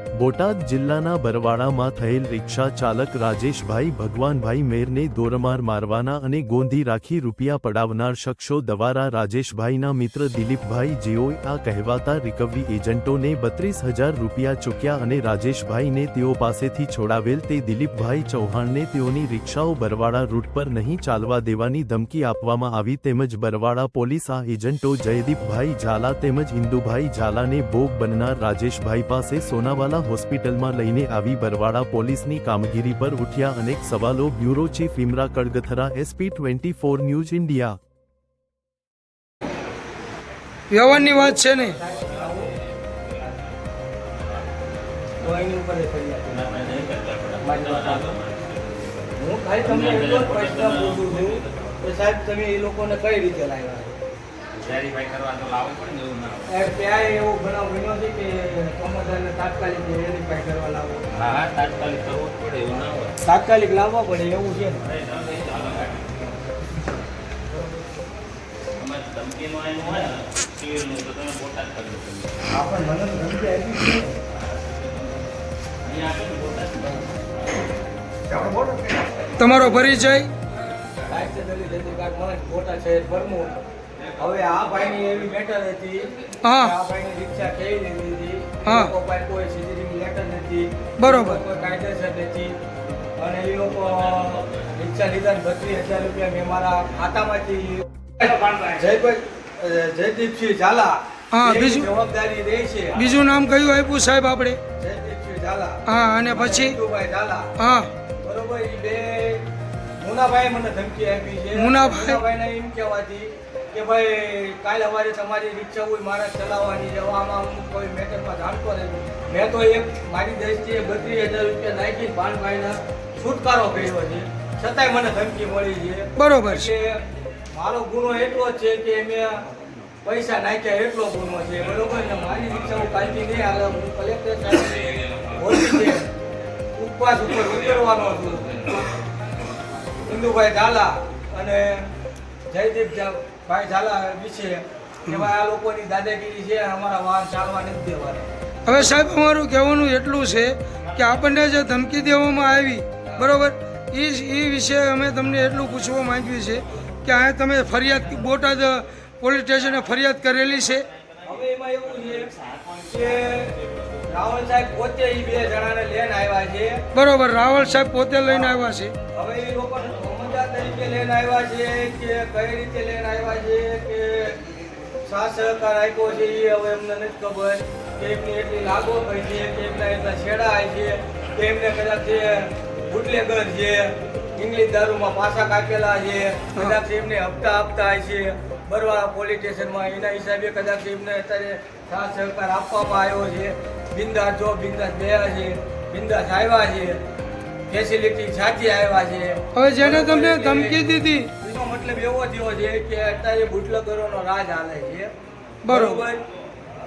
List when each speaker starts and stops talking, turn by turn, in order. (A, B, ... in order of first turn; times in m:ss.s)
0:00.2-0:37.8 A
0:40.7-0:41.8 B
0:40.9-0:42.5 C
0:42.0-0:43.5 D
0:45.2-0:46.6 C
0:46.3-0:51.8 D
0:47.4-0:48.2 C
0:49.2-0:54.0 C
0:54.5-0:56.6 D
0:56.5-1:01.0 C
1:01.1-1:03.2 D
1:03.2-1:04.9 C
1:04.8-1:06.3 D
1:08.8-1:12.3 D
1:12.5-1:14.1 C
1:14.5-1:15.2 D
1:15.8-1:17.1 D
1:18.3-1:19.0 C
1:19.4-1:20.3 B
1:21.1-1:23.6 C
1:24.2-1:32.6 C
1:26.4-1:26.7 B
1:28.6-1:28.9 B
1:31.0-1:31.4 B
1:33.2-1:43.0 C
1:34.0-1:34.4 D
1:38.2-1:38.8 D
1:41.3-1:41.9 B
1:43.0-1:44.6 B
1:44.8-1:47.6 C
1:45.9-1:46.8 B
1:47.6-1:47.9 B
1:48.2-1:49.4 C
1:50.0-2:07.0 C
1:51.6-1:52.2 B
2:06.2-2:06.7 B
2:07.5-2:09.4 C
2:10.0-2:16.1 C
2:16.8-2:18.9 C
2:20.0-2:21.8 C
2:22.5-2:28.3 C
2:28.7-2:40.9 B
2:33.0-2:33.3 C
2:40.4-2:41.4 D
2:41.2-2:42.3 C
2:41.9-2:44.0 D
2:42.9-2:43.5 C
2:44.1-2:46.8 C
2:47.0-2:48.9 B
2:48.3-2:54.4 C
2:55.0-3:17.0 C
3:17.7-3:20.8 C
3:19.6-3:21.3 B
3:21.4-3:25.1 C
3:25.6-3:26.0 B
3:25.7-3:26.2 C